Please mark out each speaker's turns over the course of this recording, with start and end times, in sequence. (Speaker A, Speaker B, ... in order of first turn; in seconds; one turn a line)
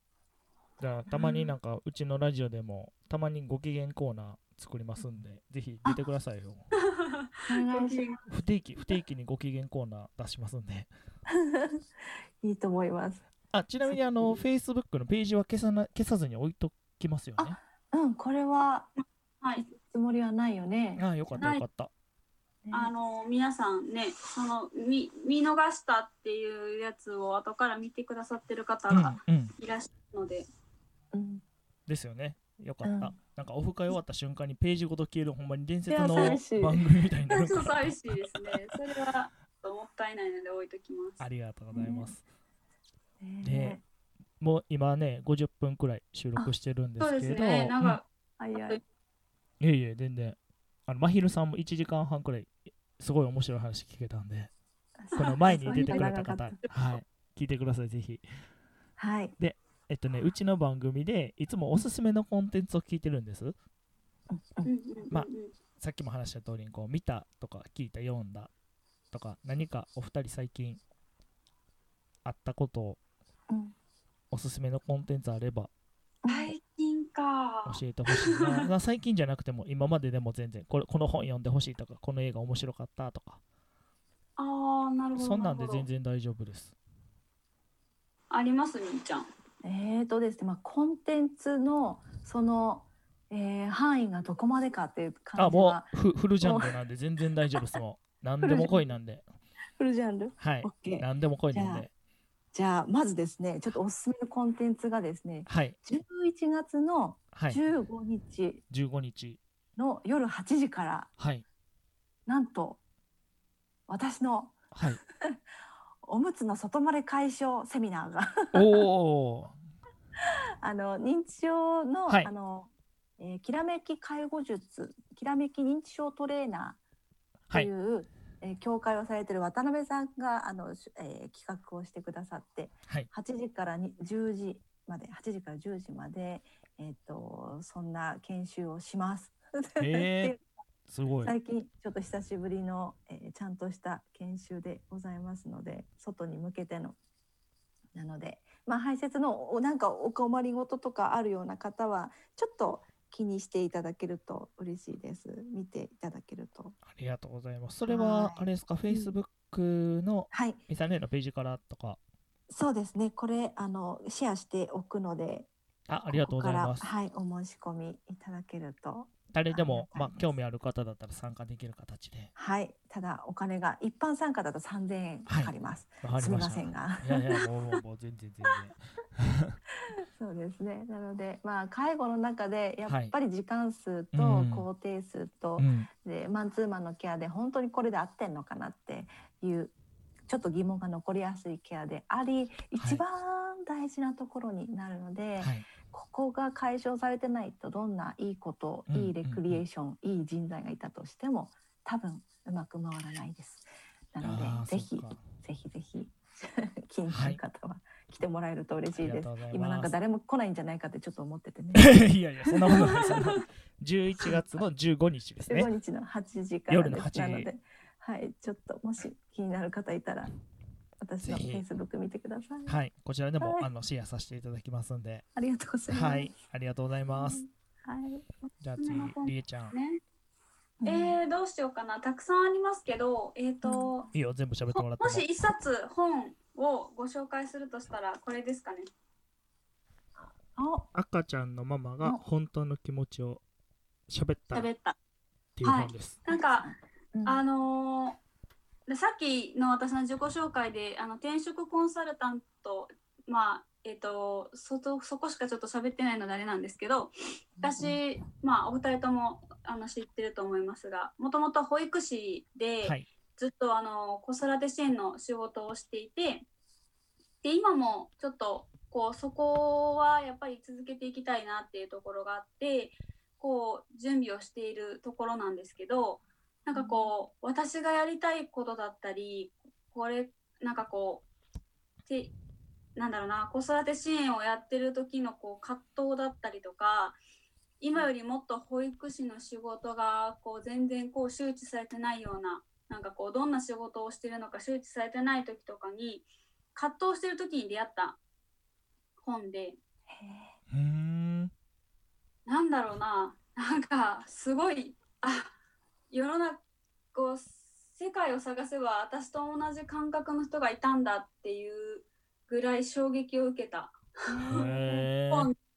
Speaker A: 0.8-6.7
Speaker B: 1.1-1.6
Speaker C: 6.9-8.2
Speaker B: 7.5-8.1
Speaker A: 8.3-10.9
Speaker B: 11.3-11.8
Speaker B: 12.4-13.2
Speaker A: 13.5-17.6
Speaker B: 13.9-14.4
Speaker B: 17.4-18.9
Speaker B: 19.6-21.1
Speaker A: 21.0-21.9
Speaker C: 21.4-21.6
Speaker B: 22.6-22.9
Speaker C: 22.7-30.5
Speaker A: 28.9-29.5
Speaker B: 31.1-31.4
Speaker A: 31.9-38.5
Speaker B: 32.8-33.2
Speaker B: 35.9-36.8
Speaker C: 37.3-41.3
Speaker A: 41.2-42.2
Speaker B: 41.7-42.1
Speaker B: 43.2-43.8
Speaker A: 43.4-43.8
Speaker A: 44.4-48.0
Speaker C: 47.0-48.8
Speaker B: 48.4-48.8
Speaker A: 49.6-54.5
Speaker B: 55.0-56.6
Speaker A: 55.1-58.2
Speaker C: 55.2-56.1
Speaker B: 59.0-59.4
Speaker A: 59.4-63.6
Speaker B: 64.3-64.7
Speaker C: 64.7-65.5
Speaker A: 65.1-68.5
Speaker A: 69.1-70.8
Speaker A: 72.2-73.0
Speaker B: 73.5-73.8
Speaker A: 74.3-75.7
Speaker B: 76.2-76.5
Speaker C: 76.3-78.6
Speaker A: 77.7-83.4
Speaker C: 84.4-85.9
Speaker A: 85.2-86.8
Speaker C: 88.3-89.3
Speaker B: 89.6-96.8
Speaker A: 95.4-99.3
Speaker B: 98.4-98.8
Speaker B: 99.8-101.9
Speaker A: 100.4-101.9
Speaker B: 102.5-108.6
Speaker A: 105.5-105.8
Speaker A: 107.3-107.6
Speaker A: 108.7-109.4
Speaker B: 109.8-111.1
Speaker A: 111.2-111.5
Speaker B: 112.3-112.8
Speaker B: 113.9-115.4
Speaker A: 114.7-115.0
Speaker B: 116.0-118.8
Speaker A: 118.5-119.5
Speaker B: 120.2-126.8
Speaker B: 127.5-140.4
Speaker A: 139.8-140.4
Speaker A: 140.9-141.3
Speaker B: 141.2-147.0
Speaker B: 147.9-156.8
Speaker A: 156.8-162.0
Speaker B: 157.9-159.2
Speaker B: 160.3-160.6
Speaker B: 162.5-165.5
Speaker A: 165.9-166.9
Speaker B: 166.1-170.3
Speaker A: 169.3-172.3
Speaker B: 172.4-177.5
Speaker A: 175.3-179.6
Speaker B: 180.1-189.7
Speaker A: 182.9-183.1
Speaker A: 184.1-184.7
Speaker A: 185.6-185.9
Speaker B: 190.3-212.0
Speaker A: 195.4-195.7
Speaker A: 198.9-199.6
Speaker A: 204.2-205.2
Speaker A: 207.1-207.4
Speaker A: 209.0-209.9
Speaker A: 211.7-215.7
Speaker B: 215.5-220.3
Speaker A: 216.7-217.5
Speaker B: 221.0-222.8
Speaker A: 221.2-221.7
Speaker A: 222.7-225.2
Speaker B: 223.4-223.7
Speaker B: 225.4-226.3
Speaker A: 225.9-227.4
Speaker B: 227.1-228.3
Speaker A: 228.6-229.8
Speaker C: 228.8-230.0
Speaker B: 230.8-231.2
Speaker C: 230.8-234.1
Speaker B: 233.6-233.9
Speaker A: 234.1-235.3
Speaker C: 234.7-238.9
Speaker B: 240.2-240.9
Speaker A: 240.9-243.4
Speaker A: 244.1-244.7
Speaker C: 244.5-245.0
Speaker A: 245.6-246.2
Speaker C: 245.6-246.7
Speaker B: 246.3-247.4
Speaker C: 247.3-248.2
Speaker C: 248.9-266.5
Speaker B: 257.6-258.0
Speaker C: 267.4-281.3
Speaker B: 276.7-277.1
Speaker C: 282.1-282.3
Speaker C: 283.0-287.2
Speaker C: 287.8-298.2
Speaker C: 299.2-299.8
Speaker B: 300.1-300.5
Speaker A: 300.7-301.5
Speaker C: 302.5-305.5
Speaker C: 306.1-306.6
Speaker C: 307.1-314.8
Speaker B: 314.3-315.1
Speaker A: 314.5-315.5